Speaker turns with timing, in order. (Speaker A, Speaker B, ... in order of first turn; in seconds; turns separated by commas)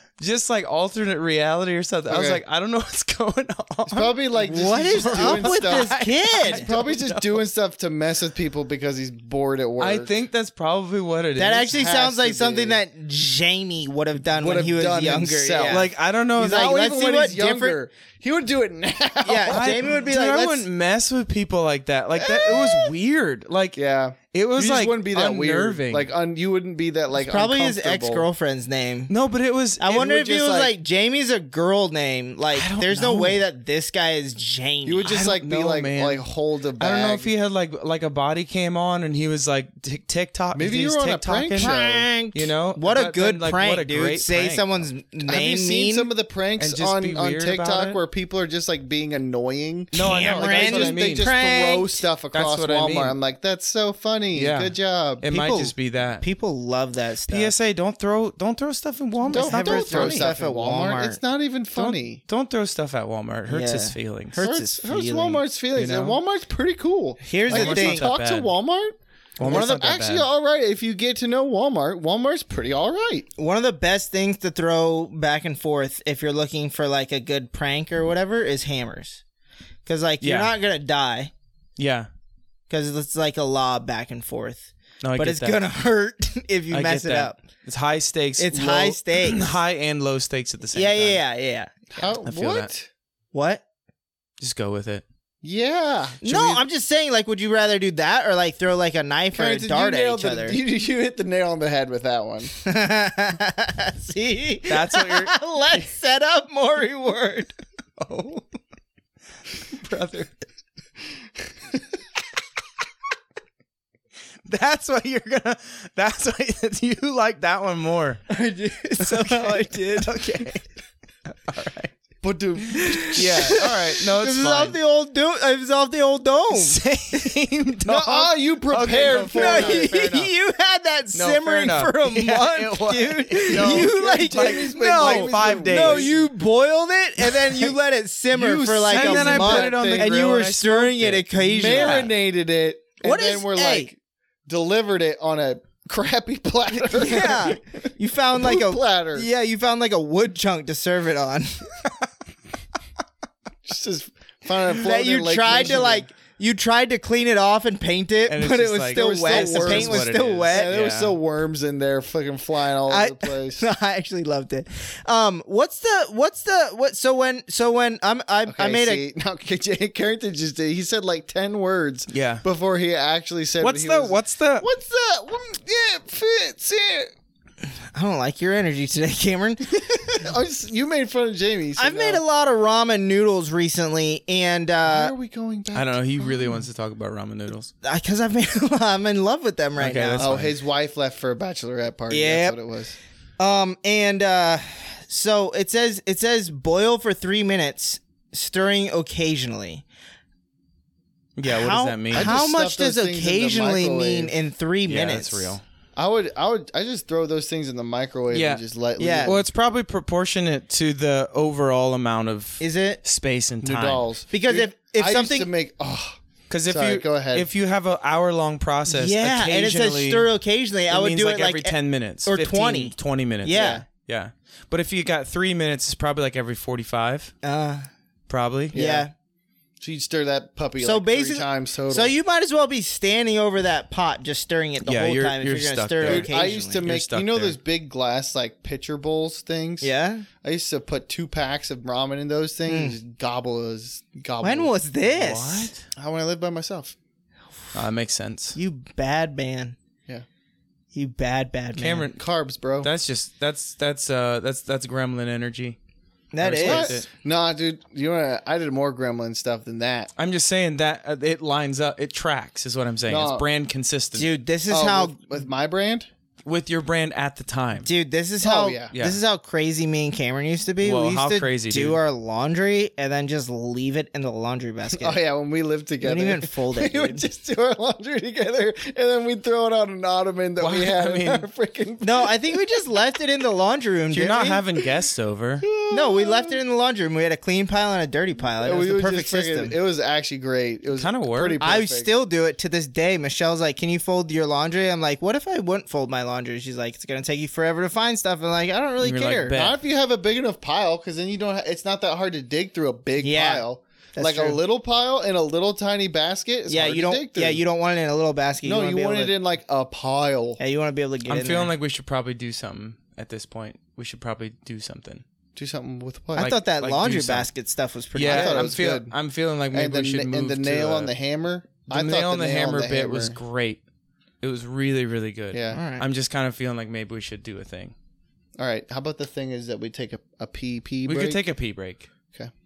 Speaker A: 0.2-7.4, Speaker B: 2.1-2.4, Speaker B: 3.9-10.1, Speaker C: 4.4-6.7, Speaker A: 9.8-11.7, Speaker C: 11.4-17.8, Speaker B: 11.7-12.8, Speaker B: 14.3-19.9, Speaker A: 15.7-16.7, Speaker C: 19.2-20.7, Speaker A: 19.5-23.8, Speaker B: 23.8-28.2, Speaker A: 24.3-26.1, Speaker C: 27.1-29.1, Speaker A: 29.1-30.1, Speaker C: 29.8-35.2, Speaker B: 29.9-30.7, Speaker A: 32.5-33.4, Speaker B: 34.8-37.3, Speaker A: 35.0-36.2, Speaker A: 36.8-41.7, Speaker B: 40.5-42.1, Speaker C: 41.6-46.1, Speaker A: 42.3-44.8, Speaker B: 45.2-55.2, Speaker A: 46.6-48.0, Speaker A: 49.9-51.3, Speaker C: 49.9-52.0, Speaker A: 52.3-53.1, Speaker A: 54.3-56.2, Speaker C: 55.3-57.5, Speaker A: 57.3-60.3, Speaker C: 59.2-61.2, Speaker B: 59.3-62.2, Speaker A: 61.7-64.5, Speaker C: 63.5-65.4, Speaker B: 64.4-73.3, Speaker A: 65.7-66.2, Speaker C: 67.2-68.1, Speaker A: 67.5-68.5, Speaker A: 69.4-70.3, Speaker C: 69.4-69.7, Speaker C: 73.4-79.2, Speaker C: 79.8-81.3, Speaker A: 80.2-80.5, Speaker A: 81.8-82.1, Speaker C: 82.7-87.4, Speaker A: 85.0-85.6, Speaker A: 86.7-91.2, Speaker C: 88.4-89.5, Speaker C: 90.7-92.1, Speaker B: 92.0-92.9, Speaker A: 92.2-92.7, Speaker C: 93.3-93.6, Speaker A: 94.4-95.0, Speaker B: 95.4-96.6, Speaker C: 96.2-100.6, Speaker B: 99.3-102.5, Speaker C: 102.6-107.5, Speaker A: 104.7-105.3, Speaker A: 108.0-108.4, Speaker A: 109.8-110.3, Speaker A: 114.5-118.2, Speaker C: 118.3-120.4, Speaker A: 119.0-120.6, Speaker A: 121.3-121.9, Speaker B: 122.2-123.8, Speaker C: 122.7-127.3, Speaker A: 123.1-124.8, Speaker A: 126.5-130.3, Speaker B: 127.8-130.0, Speaker C: 129.3-142.1, Speaker A: 131.1-136.1, Speaker B: 133.5-136.3, Speaker A: 137.2-137.7, Speaker B: 138.3-140.4, Speaker A: 138.8-142.1, Speaker B: 141.4-143.9, Speaker C: 143.0-143.9, Speaker B: 144.5-149.3, Speaker C: 146.9-151.7, Speaker B: 153.7-156.1, Speaker C: 154.7-160.7, Speaker A: 158.3-161.2, Speaker B: 158.9-163.7, Speaker C: 162.9-169.0, Speaker B: 168.5-177.1, Speaker A: 172.1-172.4, Speaker A: 173.6-174.7, Speaker C: 177.9-180.3, Speaker B: 180.1-182.2, Speaker C: 181.8-185.1, Speaker B: 184.8-186.6, Speaker A: 185.7-187.7, Speaker C: 187.8-190.3, Speaker A: 189.8-190.5, Speaker B: 190.2-193.0, Speaker C: 192.1-192.6, Speaker C: 193.4-199.8, Speaker A: 201.3-202.3, Speaker C: 201.4-205.5, Speaker B: 202.1-204.3, Speaker A: 204.8-205.6, Speaker B: 205.9-209.4, Speaker A: 208.3-208.6, Speaker C: 209.0-209.3, Speaker A: 209.2-214.0, Speaker C: 212.6-213.0, Speaker B: 213.6-217.5, Speaker C: 214.3-215.5, Speaker A: 216.5-220.3, Speaker C: 218.9-223.8, Speaker A: 220.9-227.3, Speaker B: 223.5-223.8, Speaker C: 227.4-227.9, Speaker A: 228.3-228.7, Speaker B: 228.7-229.1, Speaker C: 228.7-229.1, Speaker B: 229.8-232.1, Speaker C: 230.8-236.8, Speaker A: 234.8-237.6, Speaker B: 236.0-239.9, Speaker C: 239.8-240.2, Speaker B: 240.4-244.7, Speaker C: 242.7-242.9, Speaker C: 244.4-245.7, Speaker A: 245.0-245.8, Speaker B: 245.9-246.9, Speaker A: 247.7-248.6, Speaker C: 248.5-249.8, Speaker C: 250.9-252.1, Speaker A: 251.8-252.2, Speaker B: 252.2-252.9, Speaker A: 252.8-255.8, Speaker C: 256.3-257.0, Speaker A: 256.4-257.1, Speaker B: 256.6-260.1, Speaker A: 260.2-264.3, Speaker B: 263.1-263.4, Speaker C: 264.1-265.1, Speaker B: 264.7-266.1, Speaker A: 266.4-267.9, Speaker C: 267.8-275.2, Speaker B: 268.4-268.9, Speaker A: 268.9-269.2, Speaker A: 270.8-272.0, Speaker B: 274.9-282.6, Speaker C: 276.0-277.2, Speaker A: 280.6-281.5, Speaker C: 282.0-284.6, Speaker A: 284.1-285.7, Speaker B: 285.6-286.6, Speaker C: 285.9-289.8, Speaker B: 288.6-292.1, Speaker A: 290.9-291.6, Speaker C: 291.6-299.5, Speaker A: 299.0-299.8, Speaker B: 299.5-307.6, Speaker C: 303.2-304.6, Speaker C: 306.7-309.3, Speaker B: 308.6-310.6, Speaker C: 310.6-311.7, Speaker A: 311.2-315.2, Speaker B: 315.6-316.6, Speaker C: 316.4-318.7, Speaker A: 316.4-317.5, Speaker A: 318.1-321.1, Speaker B: 318.2-319.1, Speaker B: 319.7-323.4, Speaker A: 321.9-323.8, Speaker A: 324.4-327.9, Speaker B: 325.5-325.8, Speaker C: 325.7-326.0, Speaker B: 328.6-331.4, Speaker A: 331.1-332.1